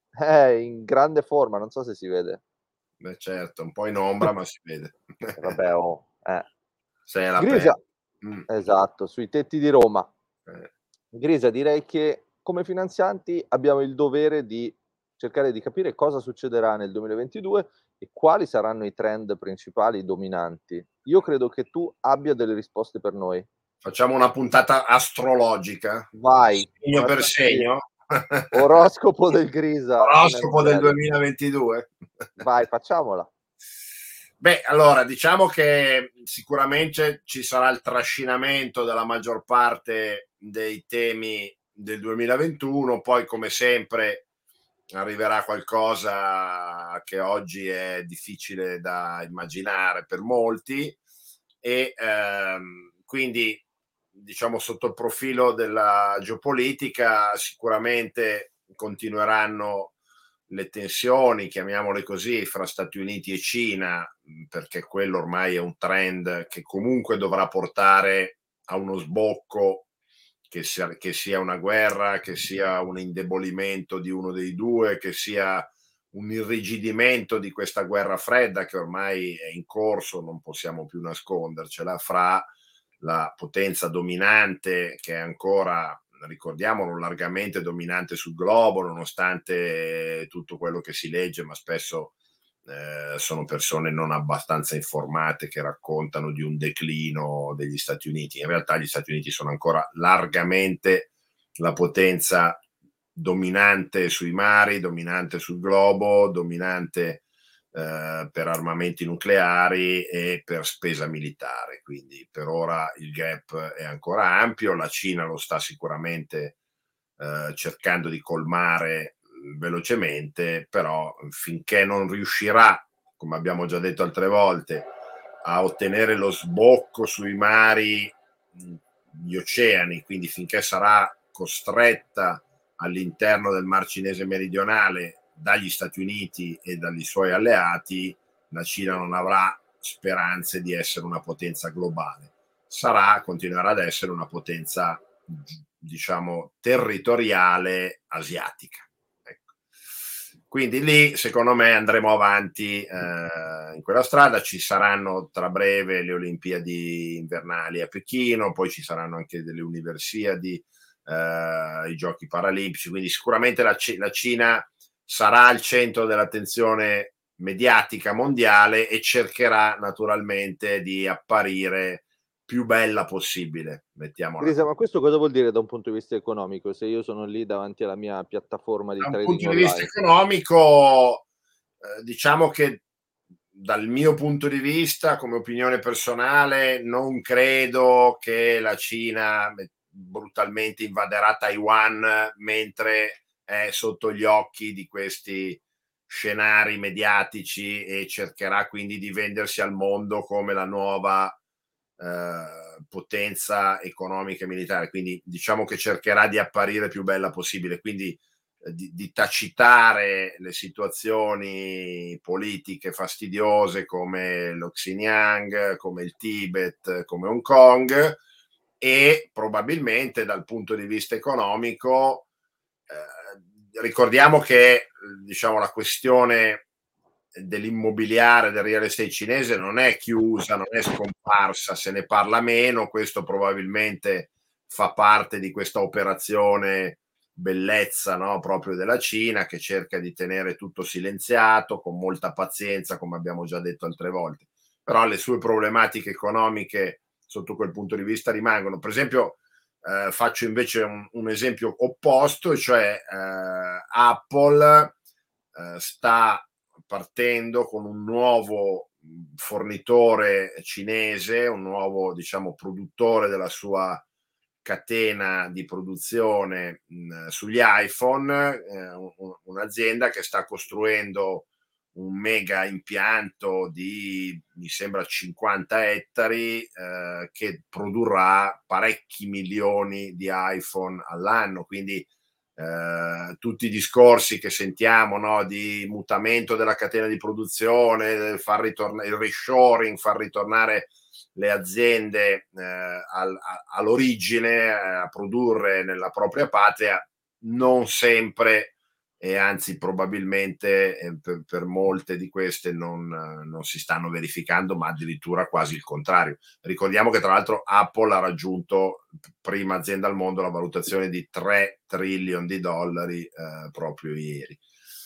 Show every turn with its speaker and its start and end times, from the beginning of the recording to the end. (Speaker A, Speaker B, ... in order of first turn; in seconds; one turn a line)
Speaker A: 0.2-2.4
Speaker B: 3.0-5.4
Speaker A: 5.4-6.5
Speaker B: 7.1-8.5
Speaker A: 7.4-7.8
Speaker A: 8.5-10.1
Speaker A: 11.1-23.5
Speaker B: 23.8-28.7
Speaker A: 26.1-27.7
Speaker A: 28.5-31.0
Speaker B: 30.0-32.4
Speaker A: 32.4-33.3
Speaker B: 34.4-44.3
Speaker B: 44.9-51.0
Speaker B: 51.6-53.6
Speaker B: 54.1-60.0
Speaker B: 60.5-69.9
Speaker B: 70.5-82.5
Speaker B: 83.0-92.1
Speaker B: 92.7-102.6
Speaker B: 103.2-116.6
Speaker B: 117.2-124.9
Speaker B: 125.4-149.6
Speaker B: 150.5-174.7
Speaker A: 174.4-179.9
Speaker B: 179.0-181.2
Speaker B: 181.8-182.8
Speaker B: 183.5-201.4
Speaker B: 202.0-218.2
Speaker B: 218.8-222.3
Speaker B: 222.9-226.7
Speaker B: 227.3-255.0
Speaker B: 255.5-264.0
Speaker B: 264.6-314.6